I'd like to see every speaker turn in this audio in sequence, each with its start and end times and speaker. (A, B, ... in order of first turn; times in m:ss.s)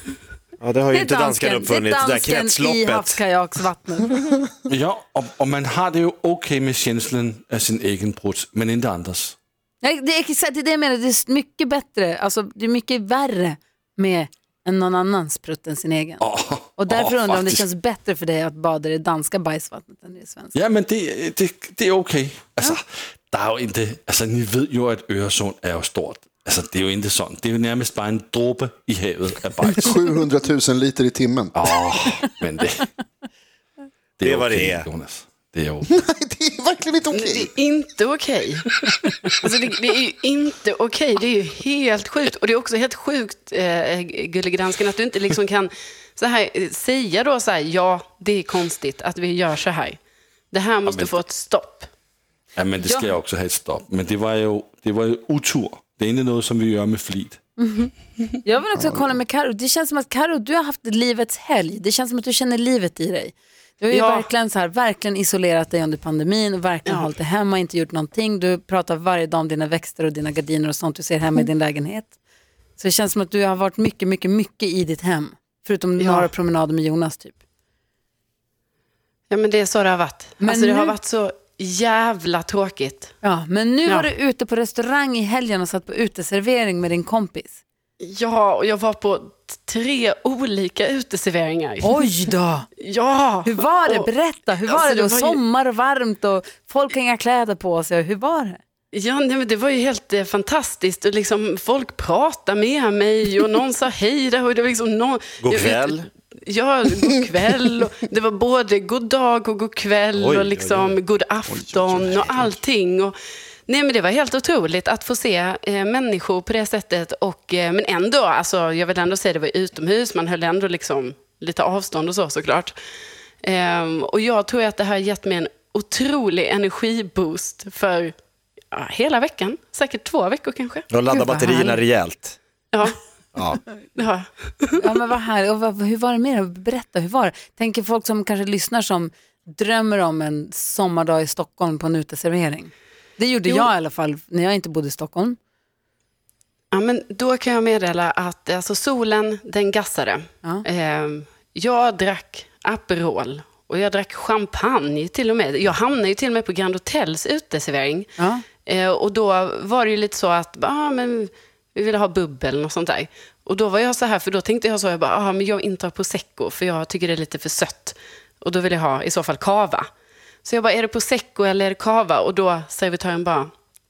0:00.6-0:03.2 A
0:00.9-0:04.4 B
0:04.7-0:09.4 C
0:09.8-0:16.2 B
0:16.2-0:17.6 C
0:16.8-0:20.5 B
0:20.5-0:30.0 C
0:29.8-0:31.7 D
0:31.6-0:32.9 C
0:34.2-0:35.9 C
0:34.2-0:34.9 A
0:35.9-0:37.5 D
0:37.1-0:38.7 E
0:39.4-0:50.0 E
0:50.5-0:51.9 E
0:50.8-0:51.2 C
0:52.5-0:57.4 C
0:52.8-0:53.1 B
0:57.6-0:57.9 B
0:58.4-1:12.1 B
0:58.8-0:59.1 D
1:03.9-1:04.3 E
1:12.8-1:17.4 B
1:16.0-1:16.3 E
1:19.3-1:23.1 E
1:20.4-1:20.9 B
1:23.2-1:27.6 B
1:28.0-1:32.0 E
1:31.8-1:32.7 B
1:32.8-1:34.1 E
1:33.4-1:38.6 B
1:34.7-1:35.4 E
1:38.9-1:53.1 E
1:45.4-1:46.1 A
1:50.2-1:50.9 A
1:51.5-1:52.6 D
1:53.7-2:02.8 E
2:03.4-2:08.1 E
2:08.7-2:10.9 E
2:10.9-2:12.4 A
2:11.1-2:11.8 B
2:12.7-2:13.0 E
2:13.3-2:13.6 A
2:14.0-2:14.7 E
2:14.8-2:25.4 B
2:26.7-2:38.1 E
2:38.2-2:38.4 B
2:38.6-2:49.8 E
2:50.4-2:53.5 E